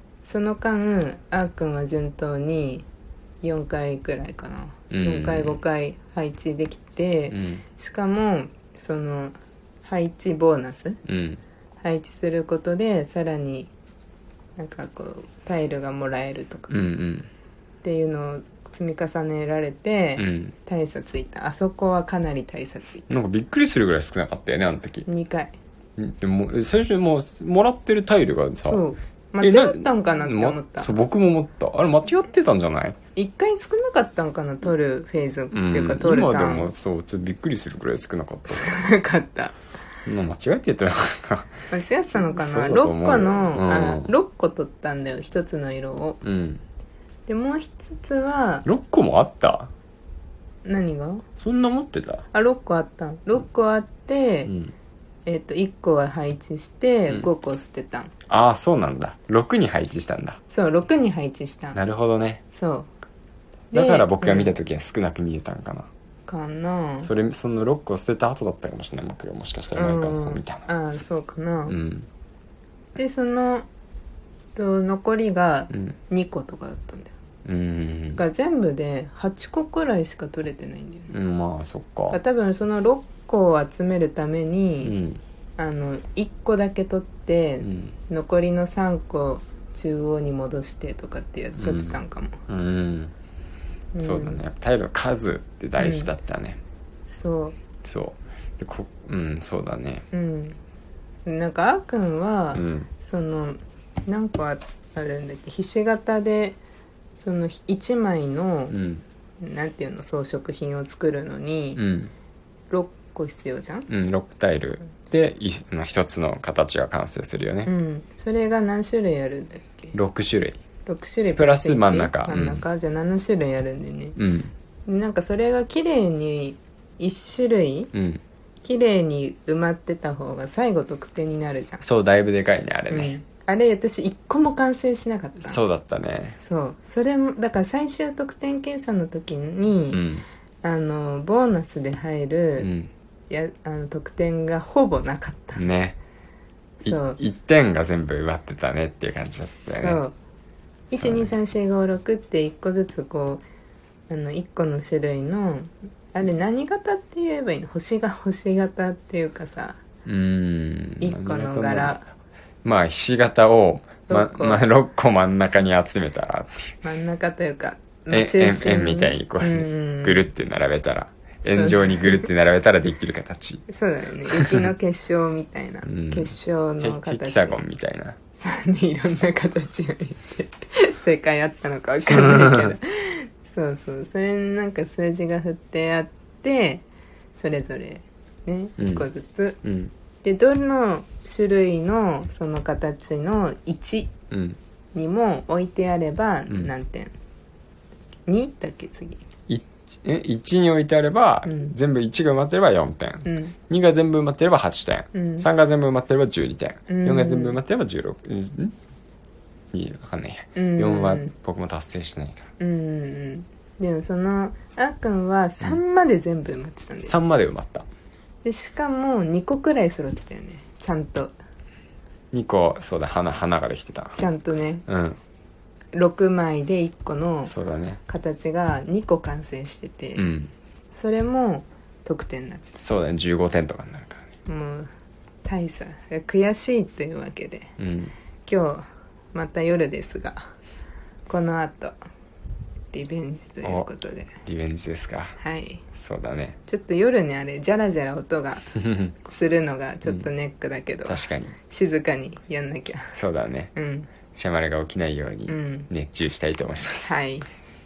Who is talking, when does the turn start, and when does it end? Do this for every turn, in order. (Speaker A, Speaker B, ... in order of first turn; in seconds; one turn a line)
Speaker A: 0.2-2.9
Speaker A: 3.4-11.0
Speaker B: 4.9-5.6
Speaker B: 7.3-7.6
Speaker B: 11.1-11.4
Speaker A: 11.8-13.7
Speaker A: 14.6-16.9
Speaker B: 16.7-17.3
Speaker A: 17.8-23.1
Speaker B: 20.2-20.6
Speaker B: 23.1-25.1
Speaker A: 25.1-25.6
Speaker B: 26.0-28.8
Speaker A: 28.6-30.9
Speaker B: 29.4-33.0
Speaker A: 33.2-36.7
Speaker B: 35.5-38.8
Speaker A: 38.5-39.6
Speaker B: 40.1-41.5
Speaker A: 41.7-46.2
Speaker B: 42.1-44.1
Speaker B: 46.2-46.6
Speaker A: 47.3-48.7
Speaker B: 48.6-49.7
Speaker A: 50.6-51.2
Speaker B: 51.4-52.2
Speaker A: 52.3-54.5
Speaker B: 54.5-54.7
Speaker A: 55.3-58.1
Speaker B: 58.3-60.4
Speaker A: 60.5-61.8
Speaker B: 61.7-62.4
Speaker A: 62.5-62.9
Speaker A: 63.7-64.5
Speaker B: 63.7-65.9
Speaker A: 66.3-67.1
Speaker B: 67.0-70.7
Speaker A: 69.7-71.8
Speaker B: 71.7-72.1
Speaker A: 73.0-73.7
Speaker A: 74.5-77.1
Speaker B: 77.5-78.2
Speaker A: 78.2-81.2
Speaker B: 81.1-82.2
Speaker A: 82.1-85.0
Speaker B: 84.8-85.2
Speaker A: 85.6-92.4
Speaker B: 87.6-88.0
Speaker B: 91.6-93.1
Speaker A: 94.0-94.4
Speaker B: 94.0-96.6
Speaker A: 95.8-96.1
Speaker A: 97.1-97.6
Speaker B: 97.8-100.1
Speaker A: 100.1-100.6
Speaker A: 101.3-106.6
Speaker B: 102.5-102.9
Speaker A: 107.2-108.8
Speaker B: 108.7-109.0
Speaker A: 109.4-111.8
Speaker B: 111.8-112.1
Speaker A: 112.7-113.9
Speaker B: 113.9-117.7
Speaker A: 117.7-119.9
Speaker B: 119.9-120.6
Speaker A: 120.9-124.2
Speaker B: 121.4-122.6
Speaker B: 124.2-124.5
Speaker A: 124.9-127.9
Speaker B: 127.9-128.2
Speaker A: 128.6-131.8
Speaker B: 131.8-133.2
Speaker A: 132.9-135.6
Speaker B: 135.4-136.4
Speaker A: 136.4-140.0
Speaker B: 139.9-140.2
Speaker A: 140.6-142.7
Speaker B: 142.6-142.9
Speaker A: 143.3-145.7
Speaker B: 145.6-146.0
Speaker B: 146.8-150.0
Speaker A: 146.8-147.2
Speaker A: 149.7-150.2
Speaker A: 150.9-153.4
Speaker B: 151.0-151.3
Speaker A: 154.1-159.8
Speaker B: 160.1-162.0
Speaker A: 161.0-162.1
Speaker B: 162.6-166.8
Speaker A: 164.1-164.6
Speaker A: 166.8-170.3
Speaker B: 168.1-173.7
Speaker A: 171.5-172.3
Speaker A: 173.7-177.6
Speaker B: 174.3-174.7
Speaker B: 175.9-178.2
Speaker A: 178.4-186.8
Speaker B: 182.1-182.7
Speaker A: 187.4-189.6
Speaker B: 188.8-189.1
Speaker B: 189.6-189.9
Speaker A: 190.2-194.1
Speaker B: 194.3-194.6
Speaker A: 194.9-197.1
Speaker A: 198.3-199.2
Speaker B: 199.5-208.8
Speaker A: 203.2-203.6
Speaker A: 205.1-205.5
Speaker A: 206.9-207.6
Speaker B: 209.7-212.5
Speaker A: 210.6-211.3
Speaker A: 212.6-217.1
Speaker B: 217.0-217.9
Speaker A: 218.4-221.3
Speaker B: 222.3-224.2
Speaker A: 224.2-224.8
Speaker B: 224.9-225.2
Speaker A: 225.9-227.5
Speaker B: 227.5-228.0
Speaker A: 228.1-230.3
Speaker B: 230.2-230.5
Speaker A: 230.9-232.8
Speaker B: 232.8-234.3
Speaker A: 234.5-234.9
Speaker A: 235.4-237.7
Speaker B: 237.8-238.1
Speaker A: 238.5-240.5
Speaker A: 241.3-242.0
Speaker A: 242.9-244.3
Speaker B: 244.4-245.4
Speaker A: 245.4-245.8
Speaker B: 246.0-246.6
Speaker A: 246.7-253.2
Speaker B: 248.8-249.2
Speaker B: 251.1-251.6
Speaker B: 253.2-253.7
Speaker A: 253.8-254.1
Speaker B: 254.3-257.2
Speaker A: 255.5-255.9
Speaker A: 257.1-257.5